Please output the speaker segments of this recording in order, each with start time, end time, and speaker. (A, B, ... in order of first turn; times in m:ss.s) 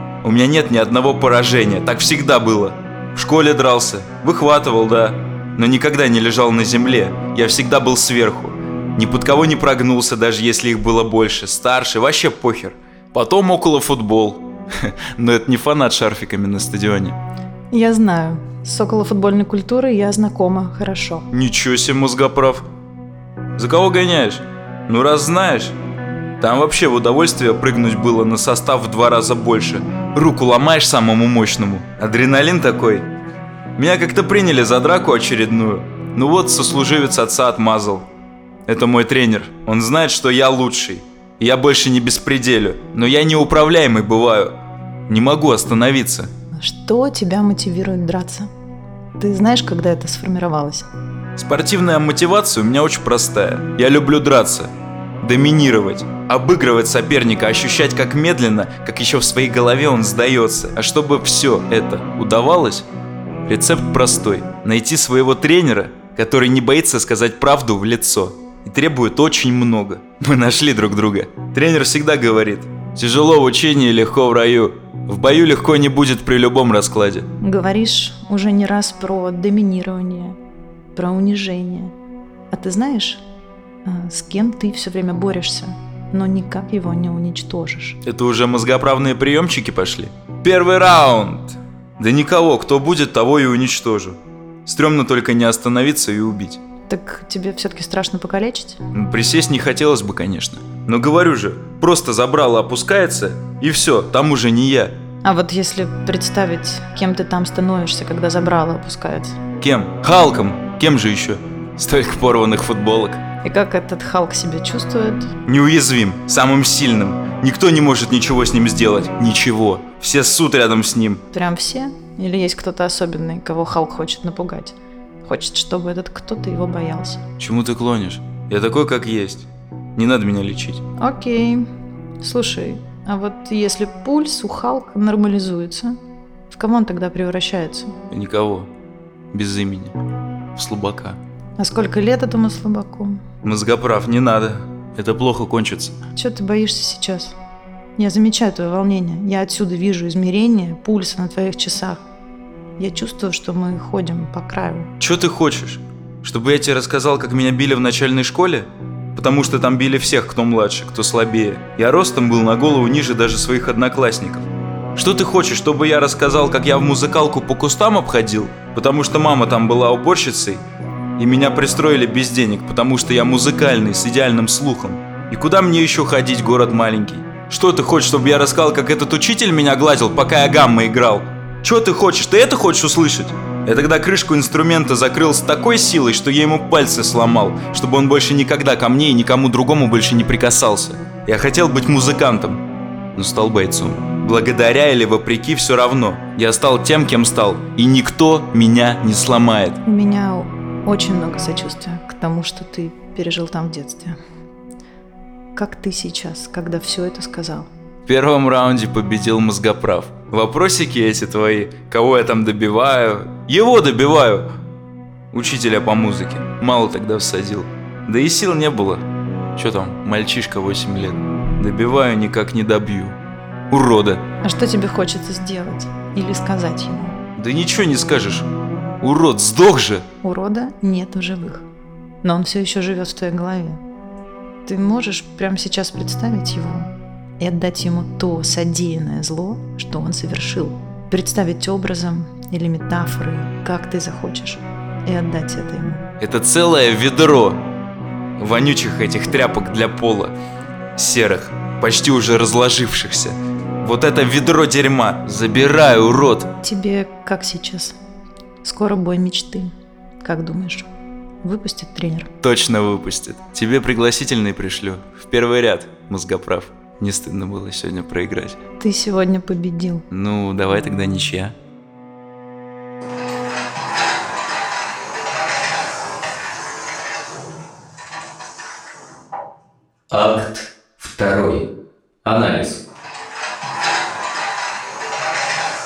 0:00.2-0:17.2 A
0:17.7-0:21.2 B
0:21.3-0:22.7 A
0:23.6-0:25.8 A
0:26.4-0:33.1 A
0:33.8-0:38.1 A
0:38.7-0:44.6 A
0:45.1-0:46.3 A
0:46.6-0:48.5 B
0:49.2-0:50.9 B
0:51.4-1:02.9 A
1:03.5-1:17.3 A
1:17.4-1:20.4 B
1:20.9-1:21.9 B
1:22.5-1:23.2 B
1:23.8-1:28.0 B
1:28.0-1:36.6 A
1:36.9-1:38.8 B
1:38.9-1:44.9 A
1:45.2-1:49.4 B
1:49.6-1:53.2 A
1:53.4-1:55.3 B
1:55.4-2:01.2 A
2:01.3-2:07.2 B
2:07.4-2:10.8 A
2:11.0-2:11.6 B
2:12.2-2:15.9 B
2:16.5-2:17.9 B
2:18.1-2:18.7 A
2:19.3-2:20.0 A
2:20.5-2:21.2 A
2:21.6-2:23.2 B
2:23.4-2:25.9 A
2:26.1-2:27.4 B
2:28.0-2:32.0 B
2:32.8-2:34.9 B
2:35.0-2:50.6 A
2:51.2-3:12.6 A
3:13.2-3:19.8 A
3:19.8-3:24.2 B
3:25.5-3:27.7 B
3:28.1-3:34.5 A
3:35.3-3:43.2 A
3:43.7-3:44.2 A
3:44.4-3:47.2 B
3:47.4-3:48.5 A
3:49.0-3:50.0 A
3:50.2-3:51.7 B
3:52.2-3:53.8 B
3:54.6-4:06.1 B
4:06.2-4:07.6 A
4:08.4-4:10.3 A
4:11.0-4:16.5 A
4:16.6-4:18.0 B
4:18.6-4:20.9 B
4:21.4-4:22.3 B
4:22.4-4:28.6 A
4:28.8-4:30.0 B
4:30.1-4:31.5 A
4:40.1-4:41.6 C
4:42.2-4:42.8 C